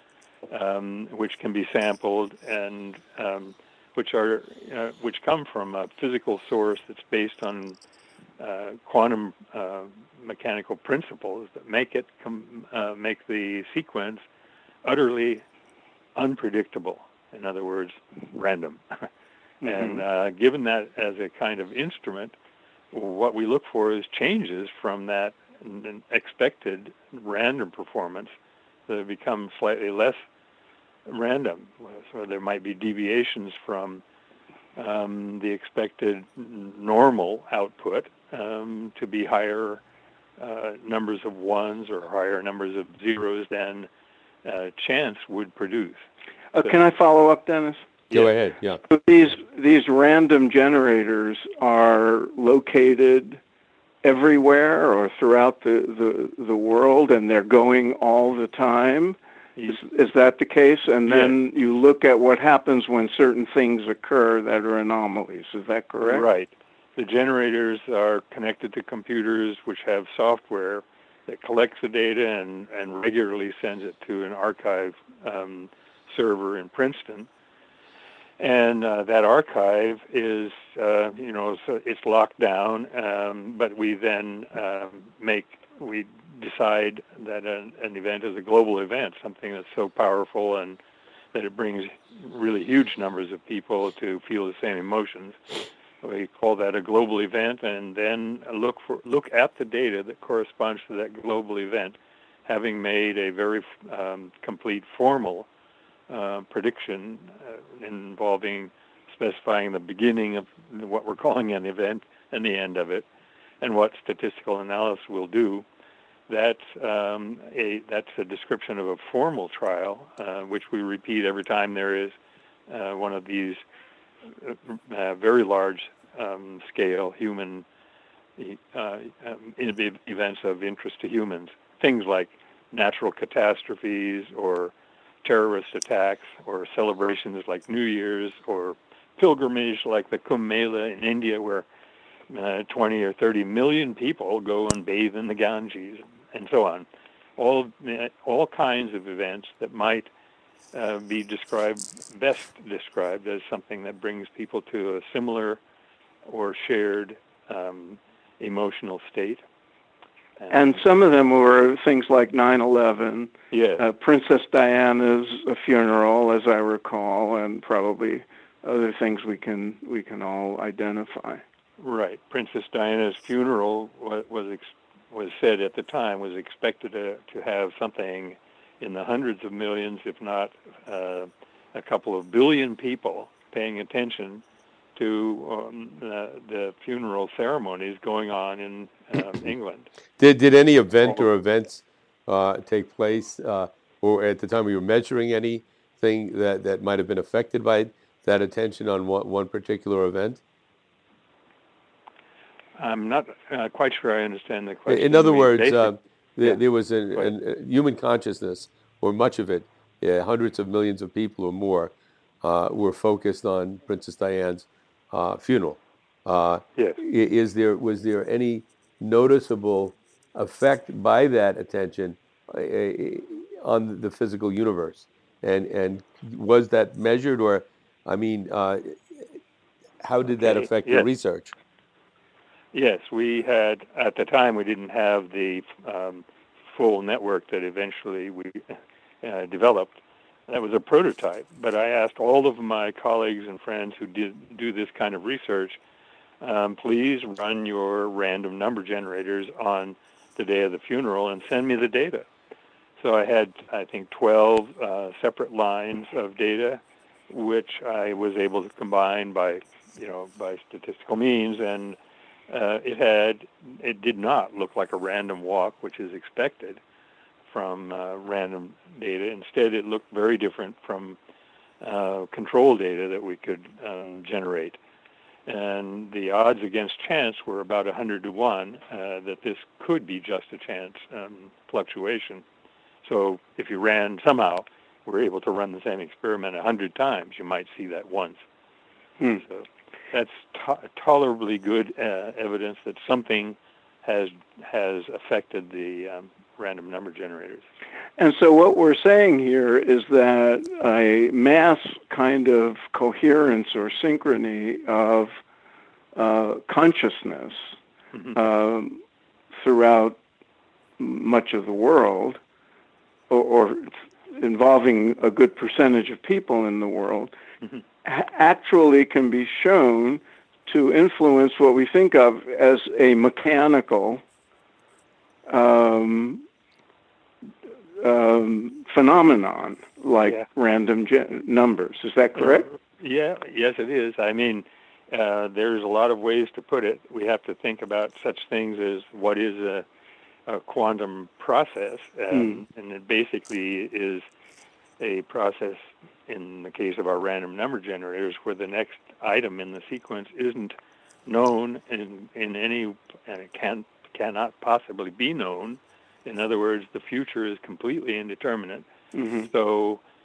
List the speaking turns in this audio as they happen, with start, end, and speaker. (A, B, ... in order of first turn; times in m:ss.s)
0:00.5-0:07.8 A
0:08.4-0:14.2 A
0:14.8-0:15.4 A
0:16.2-0:19.1 A
0:19.6-0:20.0 B
0:19.6-0:22.4 A
0:22.9-0:28.3 A
0:28.9-0:30.2 A
0:31.1-0:34.0 A
0:34.8-0:39.8 A
0:40.4-0:43.9 A
0:44.4-0:46.0 A
0:46.5-0:47.9 B
0:48.1-0:48.8 C
0:48.8-0:53.4 B
0:54.0-0:59.2 B
0:59.7-1:06.2 B
1:01.1-1:01.4 A
1:06.0-1:17.3 A
1:18.4-1:30.8 A
1:31.3-1:35.4 A
1:36.0-1:45.5 A
1:46.1-1:53.1 A
1:53.6-1:55.6 A
1:56.3-2:02.2 A
2:02.7-2:03.6 A
2:04.3-2:07.6 A
2:08.4-2:14.7 A
2:15.2-2:21.7 A
2:22.3-2:26.9 A
2:27.4-2:30.1 A
2:30.7-2:35.6 A
2:36.2-2:39.4 A
2:40.4-2:40.7 A
2:40.5-2:51.4 B
2:43.5-2:43.8 A
2:51.8-3:04.4 A
3:05.0-3:09.9 A
3:10.2-3:20.4 C
3:22.8-3:26.6 A
3:24.9-3:49.3 C
3:50.0-3:51.5 C
3:50.3-3:51.1 A
3:52.7-4:05.8 A
4:06.4-4:12.3 A
4:13.0-4:22.0 A
4:22.5-4:26.8 A
4:27.5-4:31.2 A
4:31.8-4:34.8 A
4:35.5-4:42.4 A
4:43.0-4:48.4 A
4:49.4-4:57.6 A
4:58.2-5:05.3 B
5:06.2-5:07.7 B
5:08.3-5:09.0 B
5:09.5-5:10.2 B
5:11.0-5:12.4 B
5:13.3-5:17.3 B
5:18.0-5:24.2 B
5:25.5-5:26.4 B
5:28.0-5:32.7 B
5:32.5-5:39.9 A
5:40.5-5:44.2 A
5:42.3-5:42.6 B
5:45.0-5:50.8 A
5:51.3-5:58.9 A
5:59.1-5:59.5 B
5:59.4-6:00.0 A